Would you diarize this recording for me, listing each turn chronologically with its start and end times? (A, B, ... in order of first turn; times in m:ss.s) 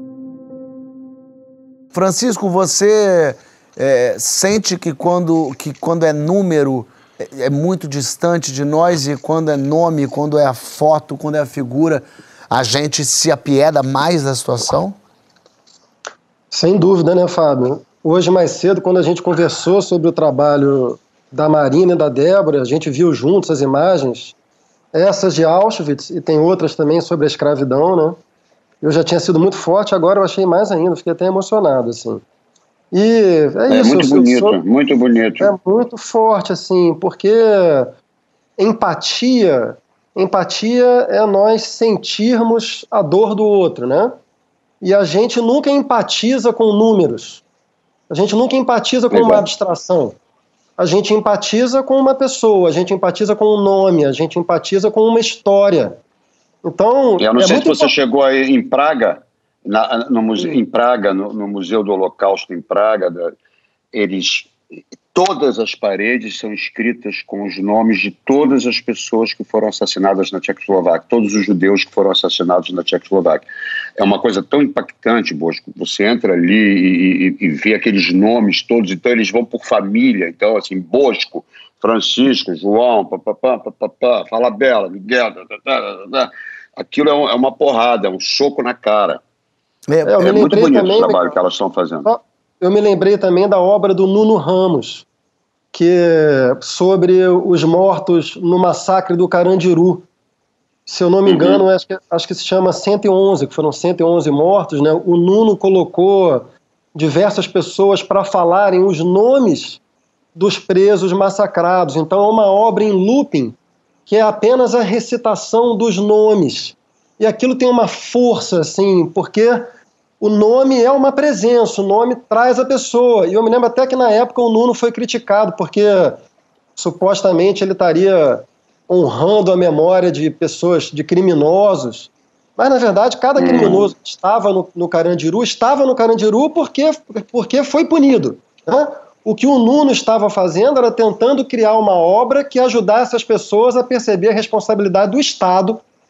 0:01.9-0:15.0 A
0:16.5-0:24.3 B
0:24.9-0:28.2 B
0:28.8-0:32.2 B
0:32.9-0:34.6 B
0:33.7-0:35.5 C
0:35.4-0:37.9 B
0:38.6-0:44.2 B
0:44.8-0:47.4 B
0:48.1-0:50.2 B
0:49.1-0:49.5 C
0:50.8-0:56.0 B
0:56.6-0:57.9 B
0:57.2-1:03.3 C
1:03.9-1:04.6 C
1:05.1-1:13.5 C
1:14.0-1:29.2 C
1:29.9-1:30.4 A
1:30.0-1:31.4 B
1:30.2-1:32.1 C
1:32.0-1:35.0 B
1:35.7-1:40.1 B
1:40.9-1:49.8 B
1:41.2-1:41.6 C
1:50.4-1:59.7 B
2:00.2-2:06.2 B
2:06.8-2:25.8 B
2:13.4-2:13.9 C